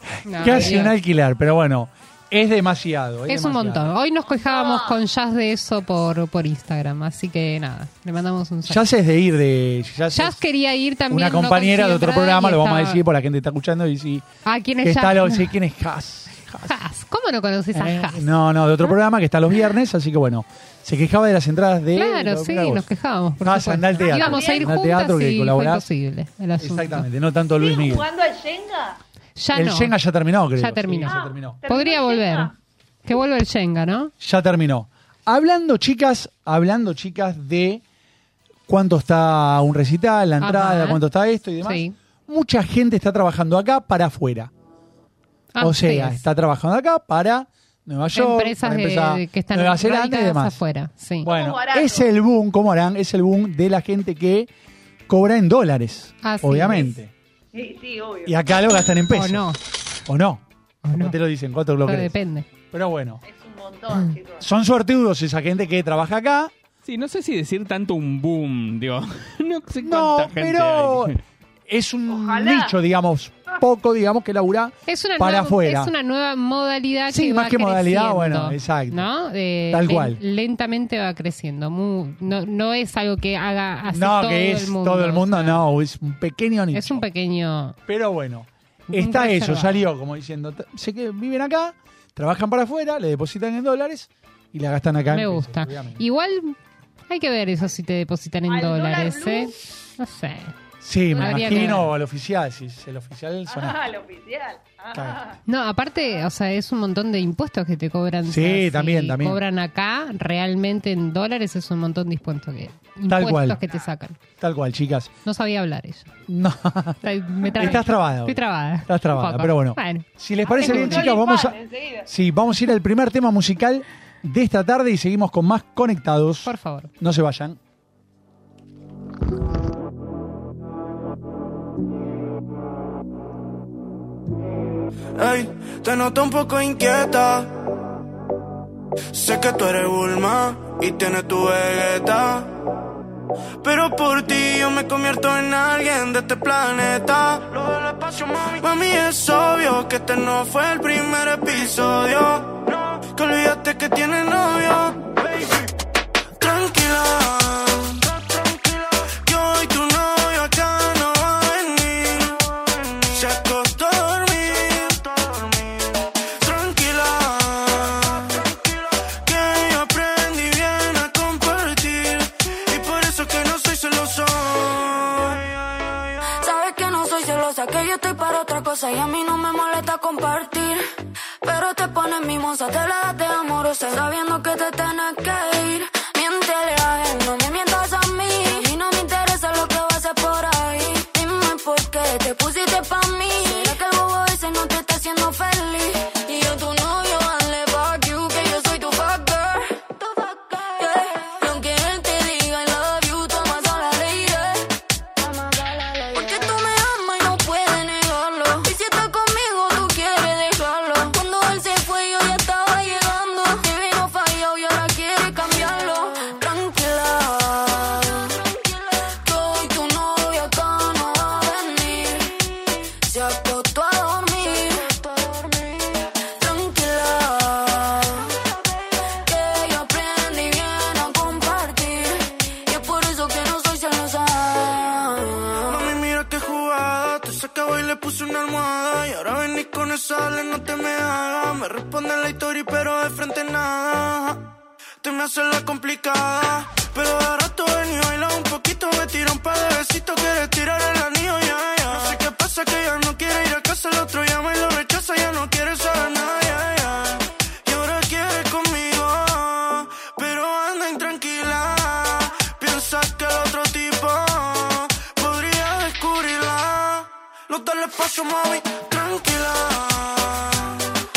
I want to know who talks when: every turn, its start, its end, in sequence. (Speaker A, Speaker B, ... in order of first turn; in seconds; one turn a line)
Speaker A: 0.2-0.9
Speaker B: 0.3-3.9
Speaker A: 3.3-8.8
Speaker C: 4.3-5.0
Speaker B: 8.7-10.4
Speaker A: 10.1-13.0
Speaker B: 11.1-14.2
Speaker A: 14.4-15.5
Speaker B: 14.8-16.8
Speaker A: 16.6-18.3
Speaker B: 17.7-22.9
Speaker A: 21.9-27.1
Speaker B: 23.4-25.9
Speaker C: 24.1-24.7
Speaker B: 26.6-28.1
Speaker C: 27.6-29.0
Speaker A: 29.4-29.9
Speaker B: 29.5-31.6
Speaker A: 30.6-32.5
Speaker C: 31.1-32.5
Speaker A: 33.0-34.1
Speaker B: 34.2-37.8
Speaker B: 38.7-44.5
Speaker A: 40.4-41.0
Speaker A: 41.6-41.9
Speaker A: 45.5-46.2
Speaker B: 45.6-50.6
Speaker A: 48.1-51.3
Speaker B: 51.2-54.5
Speaker C: 51.2-52.1
Speaker B: 55.1-57.1
Speaker A: 56.2-57.0
Speaker C: 57.5-58.4
Speaker B: 58.2-59.5
Speaker A: 59.1-59.6
Speaker B: 60.0-62.1
Speaker A: 60.8-61.1
Speaker A: 61.8-62.5
Speaker B: 62.7-63.2
Speaker C: 63.2-64.5
Speaker B: 64.4-66.5
Speaker D: 66.8-71.2
Speaker B: 69.8-75.9
Speaker C: 72.1-72.7
Speaker A: 74.9-85.6
Speaker B: 77.1-79.1
Speaker B: 79.7-80.2
Speaker B: 83.9-87.0
Speaker A: 86.7-87.8
Speaker B: 87.9-96.0
Speaker A: 88.9-89.8
Speaker A: 95.1-96.6
Speaker A: 97.1-100.5
Speaker C: 98.5-99.6
Speaker B: 100.8-103.8
Speaker A: 101.1-101.9
Speaker C: 101.2-101.7
Speaker C: 103.5-105.4
Speaker B: 104.9-105.2
Speaker A: 105.5-114.2
Speaker B: 108.3-109.4
Speaker B: 113.1-113.6
Speaker B: 114.4-115.1
Speaker A: 115.2-116.1
Speaker B: 116.3-127.6
Speaker A: 117.0-120.1
Speaker C: 120.4-122.1
Speaker A: 120.6-121.2
Speaker A: 126.4-126.9
Speaker E: 135.2-137.5
Speaker E: 139.1-142.5
Speaker E: 143.6-155.7
Speaker E: 156.4-176.1
Speaker F: 176.4-180.8
Speaker F: 181.4-222.5
Speaker F: 223.0-228.4
Speaker F: 229.2-235.9
Speaker E: 235.7-271.0